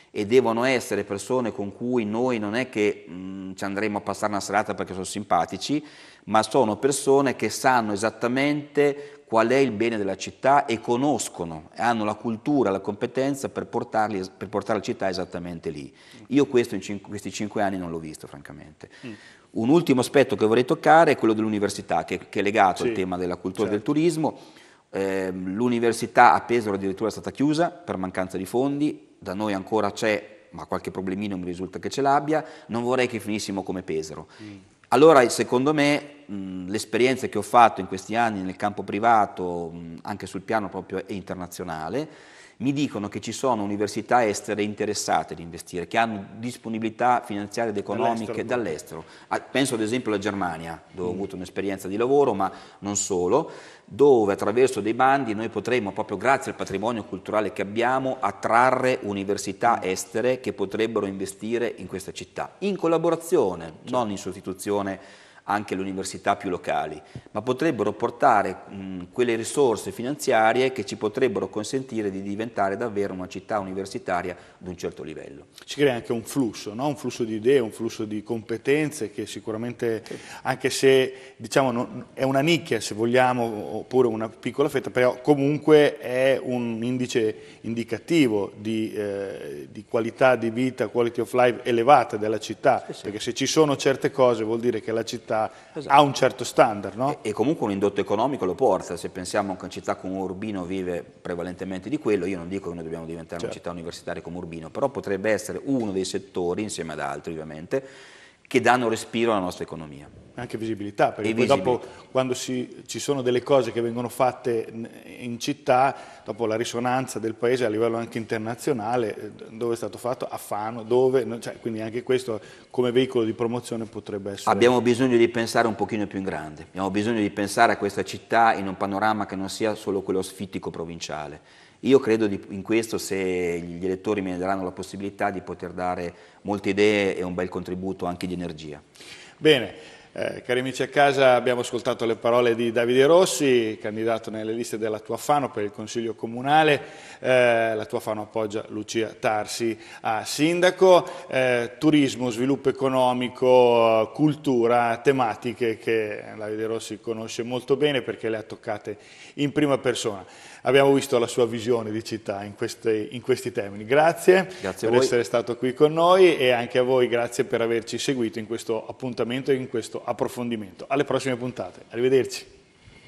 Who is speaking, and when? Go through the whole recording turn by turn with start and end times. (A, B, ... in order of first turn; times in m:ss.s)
0:00.1-1:15.5 A
0:47.9-0:48.7 B
1:15.7-1:37.2 B
1:37.1-1:47.9 A
1:48.5-1:50.1 A
1:50.4-2:04.7 B
1:51.2-1:51.8 A
2:04.5-2:18.8 A
2:19.4-2:52.5 B
2:44.6-2:45.1 A